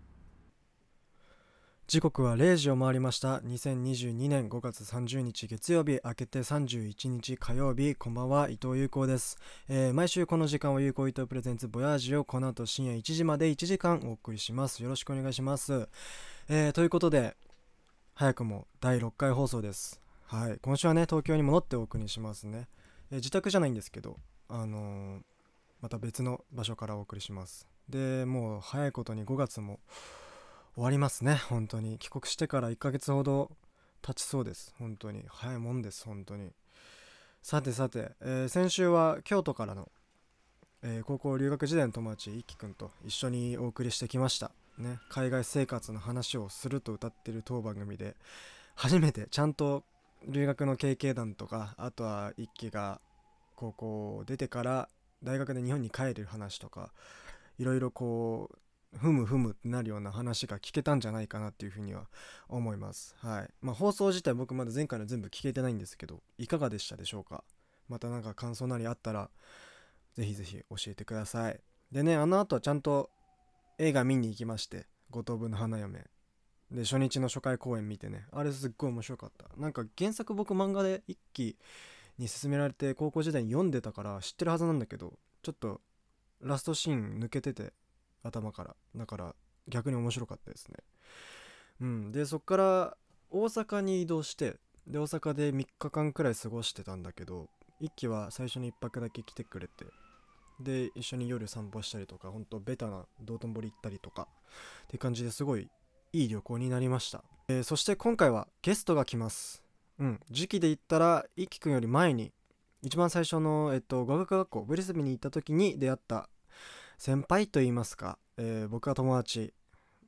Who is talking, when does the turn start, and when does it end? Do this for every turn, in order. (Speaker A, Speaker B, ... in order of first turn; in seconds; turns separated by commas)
Speaker A: 1.9-15.9, Speaker A: 16.5-17.4, Speaker A: 18.1-25.2, Speaker A: 25.8-30.2, Speaker A: 30.8-36.6, Speaker A: 37.4-39.9, Speaker A: 40.8-48.2, Speaker A: 48.8-53.0, Speaker A: 53.6-57.0, Speaker A: 57.6-69.3, Speaker A: 70.1-73.1, Speaker A: 73.8-76.1, Speaker A: 76.7-81.6, Speaker A: 82.2-85.8, Speaker A: 86.4-90.8, Speaker A: 91.8-99.9, Speaker A: 100.6-104.3, Speaker A: 104.9-116.3, Speaker A: 117.0-119.5